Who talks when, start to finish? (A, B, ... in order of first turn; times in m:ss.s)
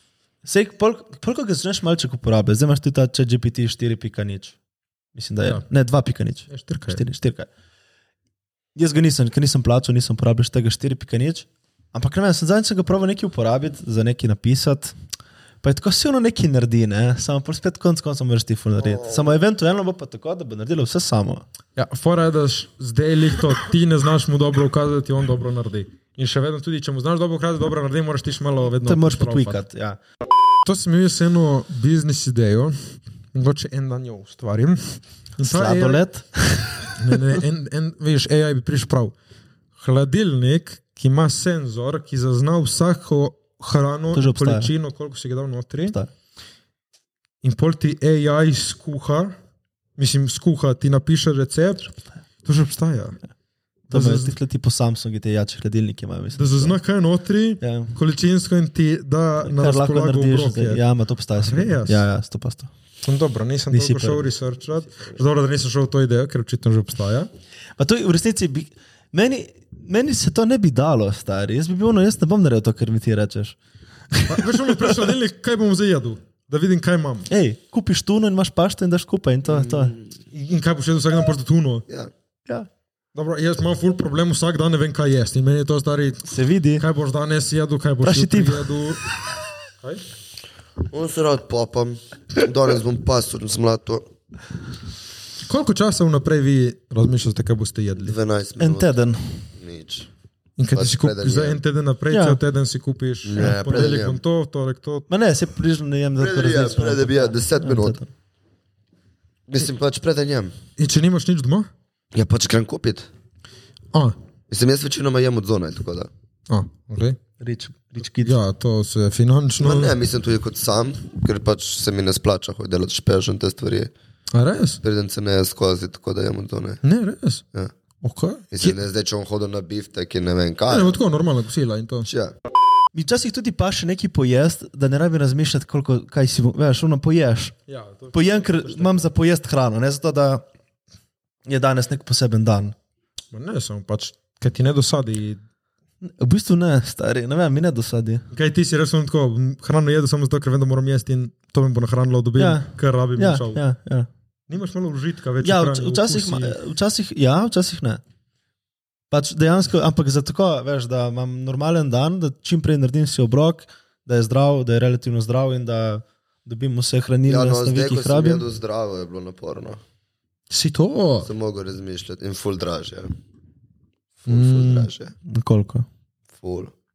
0:00.4-0:04.6 A
0:05.1-0:07.5 A
0:06.5-0:07.0 B
0:08.8-0:15.0 A
0:15.6-0:21.4 A
0:18.9-0:19.2 C
0:21.8-0:29.6 B
0:28.8-0:30.0 A
0:30.6-0:36.0 B
0:35.4-0:37.2 A
0:37.0-0:39.1 B
0:39.8-0:46.0 B
0:44.1-0:44.7 A
0:47.4-0:49.3 B
0:50.0-0:53.2 B
0:53.9-0:56.8 A
0:53.9-0:54.3 B
0:56.3-1:00.8 B
0:57.6-0:57.9 A
0:59.4-1:02.7 A
1:01.4-1:02.0 B
1:03.0-1:07.3 B
1:03.7-1:04.3 A
1:07.8-1:13.6 A
1:14.1-1:15.0 A
1:14.3-1:17.3 B
1:17.3-1:19.9 A
1:19.5-1:20.1 C
1:20.3-1:21.8 B
1:23.1-1:29.1 B
1:26.3-1:26.8 A
1:28.0-1:28.7 A
1:30.9-1:34.1 C
1:35.4-1:38.1 B
1:38.0-1:39.0 C
1:38.6-1:39.4 A
1:39.6-1:40.1 C
1:40.6-1:45.1 B
1:40.7-1:41.6 C
1:42.1-1:42.4 A
1:43.2-1:44.2 C
1:45.1-1:48.1 A
1:46.2-1:48.0 C
1:49.5-1:50.5 C
1:50.8-1:51.7 B
1:52.1-1:53.1 C
1:54.5-1:56.1 C
1:56.5-1:57.2 B
1:57.4-1:58.4 A
1:58.2-1:59.9 B
1:59.6-2:03.9 C
2:04.3-2:04.8 B
2:04.8-2:06.8 C
2:06.8-2:07.4 B
2:08.0-2:08.8 B
2:08.5-2:11.0 C
2:10.7-2:12.1 B
2:12.1-2:12.3 C
2:12.9-2:17.5 A
2:17.7-2:19.0 B
2:18.1-2:20.4 A
2:21.4-2:22.7 A
2:23.3-2:25.4 B
2:26.0-2:28.2 A
2:28.3-2:33.6 B
2:32.4-2:34.1 A
2:34.5-2:36.6 B
2:35.4-2:38.0 A
2:39.1-2:48.5 A
2:47.2-2:49.8 C
2:50.5-2:51.3 B
2:51.2-2:53.1 C
2:54.2-2:55.1 C
2:54.3-2:54.9 B
2:55.2-2:55.8 A
2:56.4-2:56.7 C